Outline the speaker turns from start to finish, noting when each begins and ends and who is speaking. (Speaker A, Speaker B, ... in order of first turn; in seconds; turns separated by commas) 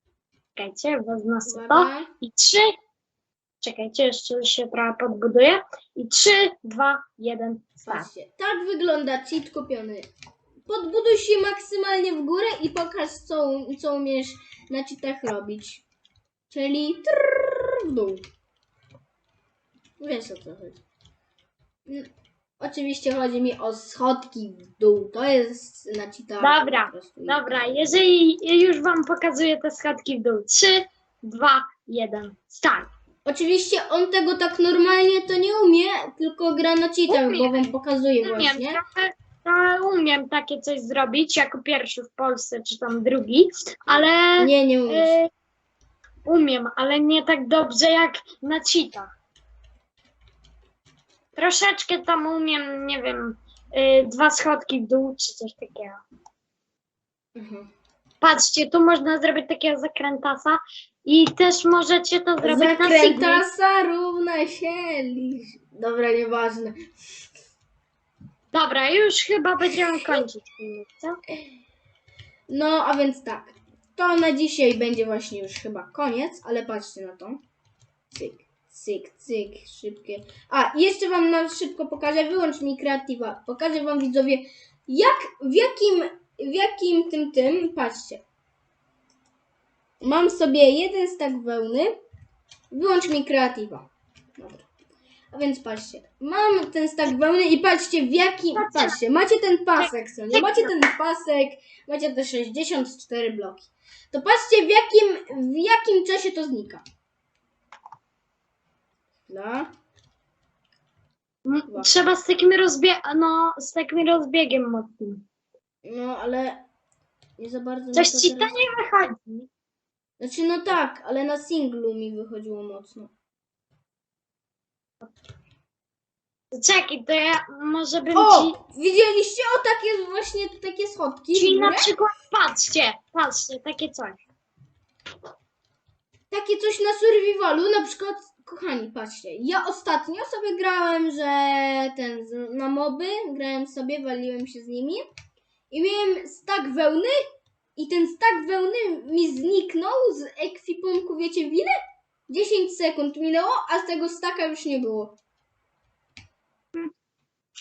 Speaker A: 0.6-2.7, Speaker B: 1.5-2.1, Speaker A: 3.6-8.1, Speaker B: 7.9-10.1, Speaker B: 10.7-15.8, Speaker B: 16.5-18.2, Speaker B: 20.0-20.8, Speaker B: 21.9-28.0, Speaker A: 26.4-32.9, Speaker B: 33.2-38.8, Speaker A: 37.1-45.3, Speaker B: 44.4-45.2, Speaker A: 46.3-49.1, Speaker A: 51.4-56.0, Speaker B: 57.4-57.7, Speaker A: 58.2-63.4, Speaker B: 62.4-66.8, Speaker A: 68.5-71.2, Speaker B: 72.5-77.4, Speaker B: 78.1-88.2, Speaker B: 90.0-91.9, Speaker B: 92.7-94.7, Speaker B: 95.3-106.8, Speaker A: 98.5-99.0, Speaker A: 99.8-100.8, Speaker B: 109.3-109.7, Speaker A: 111.5-115.2, Speaker B: 115.8-116.7, Speaker B: 117.4-118.6, Speaker A: 117.9-119.5, Speaker B: 120.2-123.1, Speaker A: 126.5-128.6, Speaker B: 128.2-131.9, Speaker A: 131.3-134.2, Speaker B: 136.3-145.1, Speaker B: 145.7-147.2, Speaker B: 147.8-151.7, Speaker B: 152.3-155.2